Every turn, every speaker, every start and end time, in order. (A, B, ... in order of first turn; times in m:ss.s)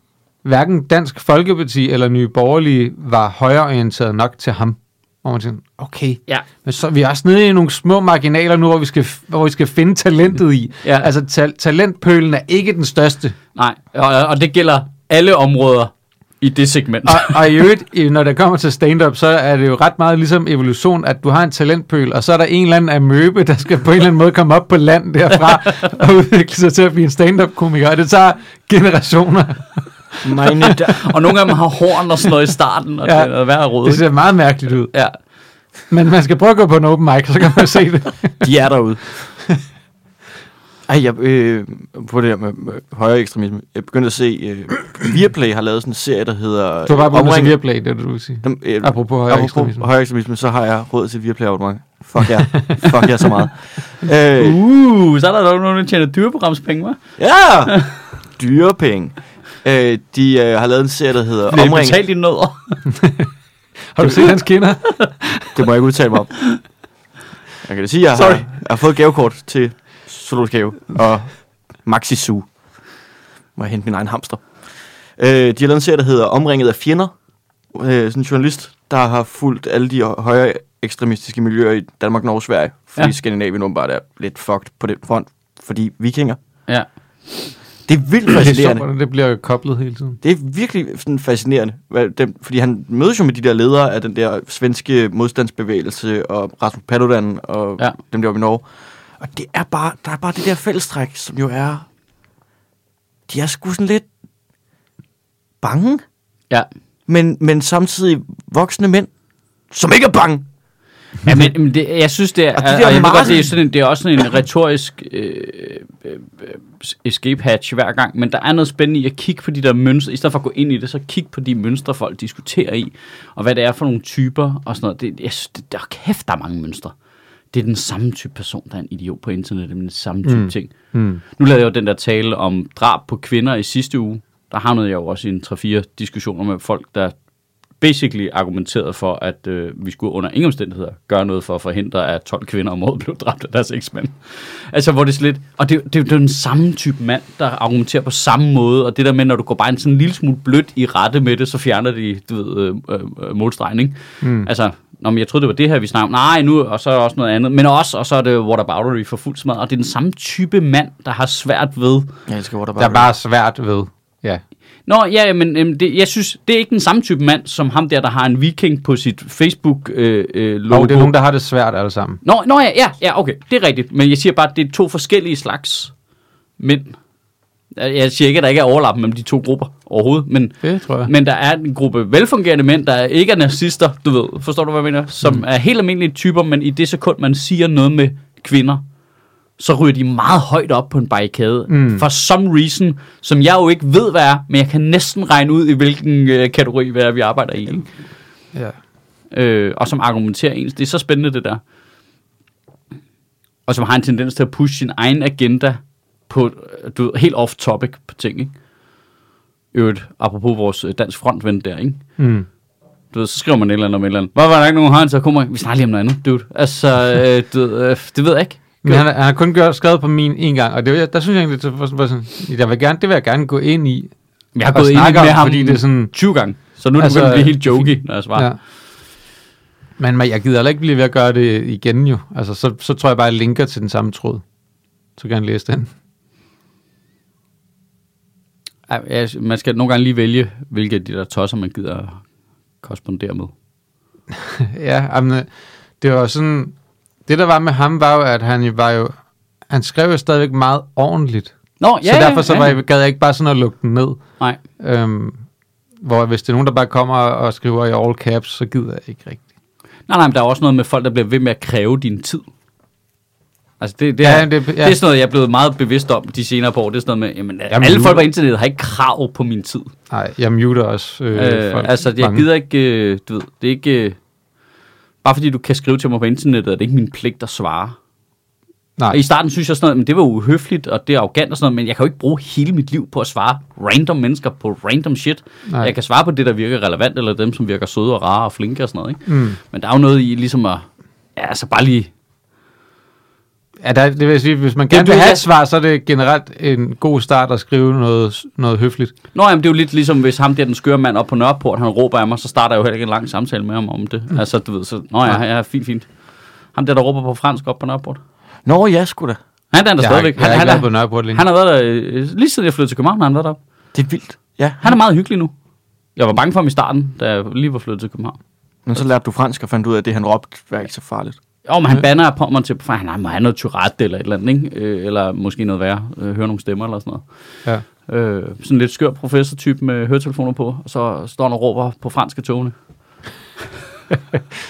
0:00.4-0:13.3 A
0:10.8-0:11.1 B
0:13.5-0:17.4 B
0:17.0-0:30.7 A
0:30.2-0:31.1 C
0:30.8-0:34.0 B
0:33.0-0:34.9 A
0:35.9-0:38.4 A
0:38.4-0:39.2 C
0:40.9-0:47.6 C
0:46.8-0:49.8 A
0:48.4-0:54.6 C
0:54.4-0:57.0 B
0:57.2-0:57.8 C
0:57.7-0:57.9 B
0:58.4-1:02.0 C
1:01.5-1:02.8 B
1:02.9-1:03.3 A
1:03.9-1:05.6 A
1:04.0-1:04.3 B
1:05.5-1:06.3 C
1:07.6-1:11.3 C
1:08.1-1:08.4 B
1:11.8-1:12.4 C
1:13.6-1:14.5 C
1:15.2-1:17.1 C
1:17.7-1:26.4 C
1:27.9-1:28.8 C
1:28.3-1:30.2 A
1:30.2-1:38.6 C
1:39.2-1:41.8 C
1:43.3-1:44.0 C
1:45.6-1:46.0 C
1:47.1-1:49.1 C
1:49.7-1:50.4 C
1:51.2-2:06.9 B
1:52.5-1:53.5 C
2:07.5-2:10.7 B
2:10.2-2:11.2 A
2:11.4-2:17.2 B
2:17.8-2:42.1 B
2:34.2-2:34.5 A
2:42.3-2:43.1 C
2:42.8-2:44.4 A
2:44.8-2:51.1 B
2:50.7-2:52.2 A
2:52.2-2:55.9 B
2:56.6-2:57.0 B
2:57.8-3:08.8 B
3:00.6-3:01.1 A
3:09.6-3:17.9 B
3:11.7-3:12.0 A
3:19.3-3:21.6 B
3:23.6-3:28.5 B
3:29.7-3:32.0 B
3:32.2-3:32.5 A
3:33.1-3:39.0 B
3:38.8-3:44.1 A
3:44.5-3:48.5 B
3:44.7-3:46.1 A
3:47.0-3:48.6 A
3:50.0-3:54.4 A
3:55.2-3:55.9 A
3:58.9-4:02.2 B
4:02.8-4:03.5 B
4:04.3-4:05.5 A
4:06.0-4:06.7 A
4:07.2-4:09.2 A
4:09.7-4:14.2 A
4:11.8-4:12.8 B
4:14.8-4:15.4 A
4:16.0-4:19.4 A
4:20.1-4:22.4 B
4:23.8-4:29.9 B
4:24.2-4:25.0 A
4:27.7-4:28.3 A
4:30.1-4:32.5 A
4:31.3-4:34.2 B
4:35.2-4:38.0 B
4:39.1-4:52.1 B
4:45.7-4:45.9 A
4:49.3-4:49.6 A
4:53.8-4:59.1 A
4:54.9-4:55.5 B
4:59.3-5:06.1 B
5:06.7-5:08.2 B
5:08.6-5:09.4 C
5:09.7-5:13.6 B
5:10.0-5:11.4 A
5:13.9-5:15.0 C
5:14.8-5:15.5 B
5:16.2-5:18.4 B
5:18.8-5:21.4 C
5:21.6-5:27.2 B
5:28.0-5:32.7 B